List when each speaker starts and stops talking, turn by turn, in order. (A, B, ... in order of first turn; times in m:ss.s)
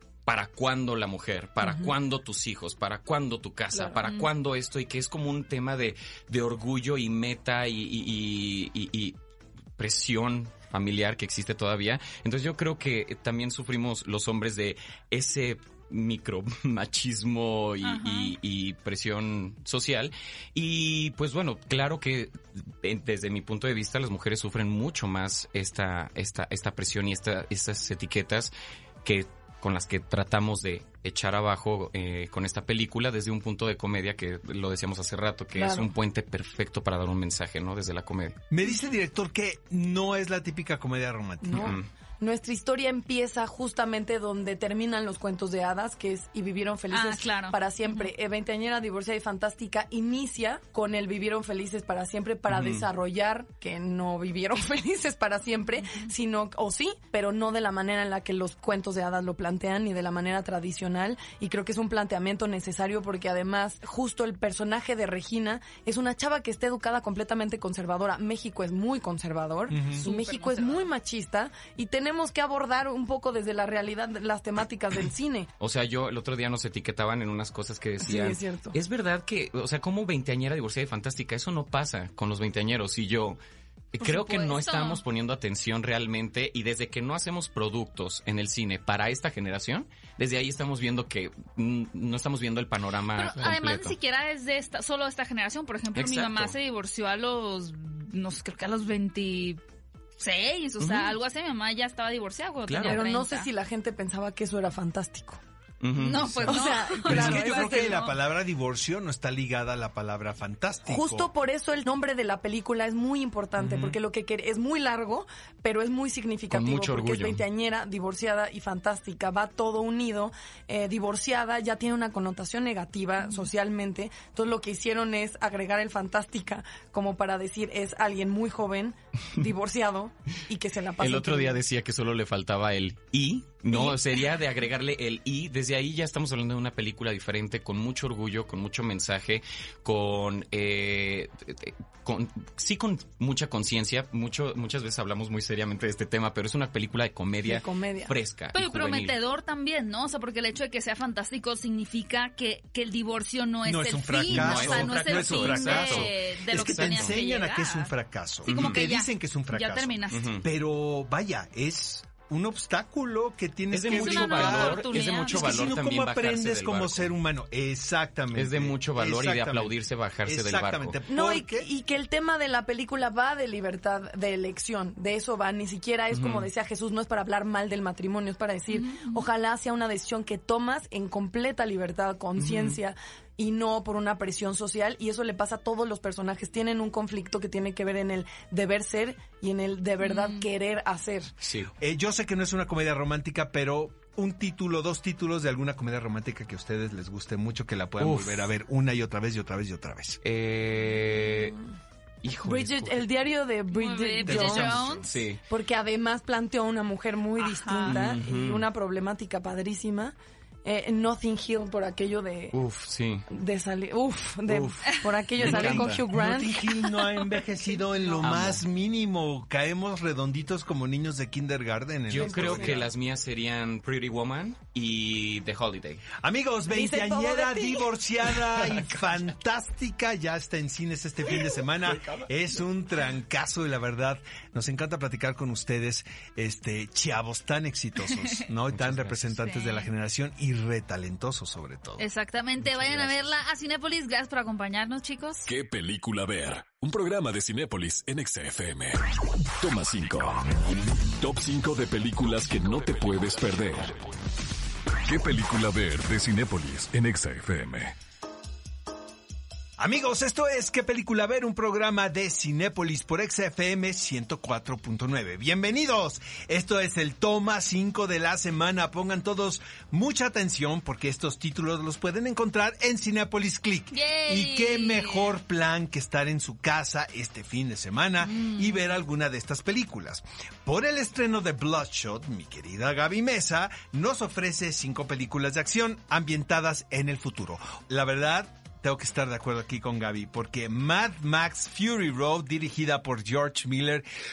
0:00.3-0:09.2 A
0:04.0-0:04.3 B
0:09.8-0:28.5 A
0:17.8-0:18.4 B
0:29.0-0:38.4 A
0:35.6-0:35.9 C
0:38.5-0:41.8 D
0:41.4-1:15.5 C
0:41.6-0:41.9 A
0:46.9-0:48.1 B
0:52.5-0:52.9 A
0:55.8-0:56.1 B
1:09.7-1:10.0 D
1:10.0-1:10.9 B
1:15.6-1:23.4 A
1:18.0-1:18.8 C
1:23.9-1:34.0 A
1:24.0-1:25.0 B
1:33.2-1:39.6 B
1:36.0-1:36.6 A
1:40.2-1:43.5 B
1:40.8-1:41.2 A
1:42.7-1:43.0 A
1:42.8-1:45.4 C
1:45.8-1:46.7 A
1:46.0-1:48.2 B
1:46.2-1:51.3 D
1:46.5-1:48.0 C
1:50.9-2:11.6 C
1:53.6-1:54.0 A
1:56.5-1:57.4 A
2:11.0-2:29.2 A
2:27.4-2:28.2 C
2:28.5-2:37.9 B
2:33.6-2:51.7 D
2:34.3-2:37.2 A
2:38.4-2:38.8 A
2:38.5-2:40.4 B
2:40.1-2:40.4 A
2:43.7-2:47.1 A
2:43.8-2:45.7 B
2:48.3-2:51.0 A
2:51.1-3:11.3 C
2:56.1-2:56.5 A
2:58.7-2:59.2 B
3:02.4-3:02.8 A
3:10.0-3:10.5 B
3:11.4-3:11.7 A
3:11.8-3:20.2 D
3:18.0-3:18.5 A
3:20.2-3:21.6 A
3:22.2-3:23.1 A
3:22.4-3:24.8 C
3:23.7-3:25.2 B
3:24.3-3:25.0 D
3:24.3-3:25.4 A
3:25.5-3:32.6 C
3:27.4-3:28.0 B
3:27.8-3:28.7 A
3:32.5-3:33.3 A
3:33.3-3:36.6 C
3:34.5-3:36.1 A
3:35.4-3:42.9 D
3:38.2-3:38.6 A
3:42.1-3:46.1 A
3:42.2-3:42.8 C
3:46.2-4:02.1 D
3:46.7-3:47.9 C
3:58.7-3:59.3 A
3:59.4-3:59.9 B
4:02.0-4:05.5 B
4:02.8-4:03.1 A
4:05.5-4:09.0 E
4:09.6-4:14.0 E
4:15.0-4:18.0 E
4:19.8-4:54.1 D
4:33.9-4:35.3 B
4:38.2-4:38.8 B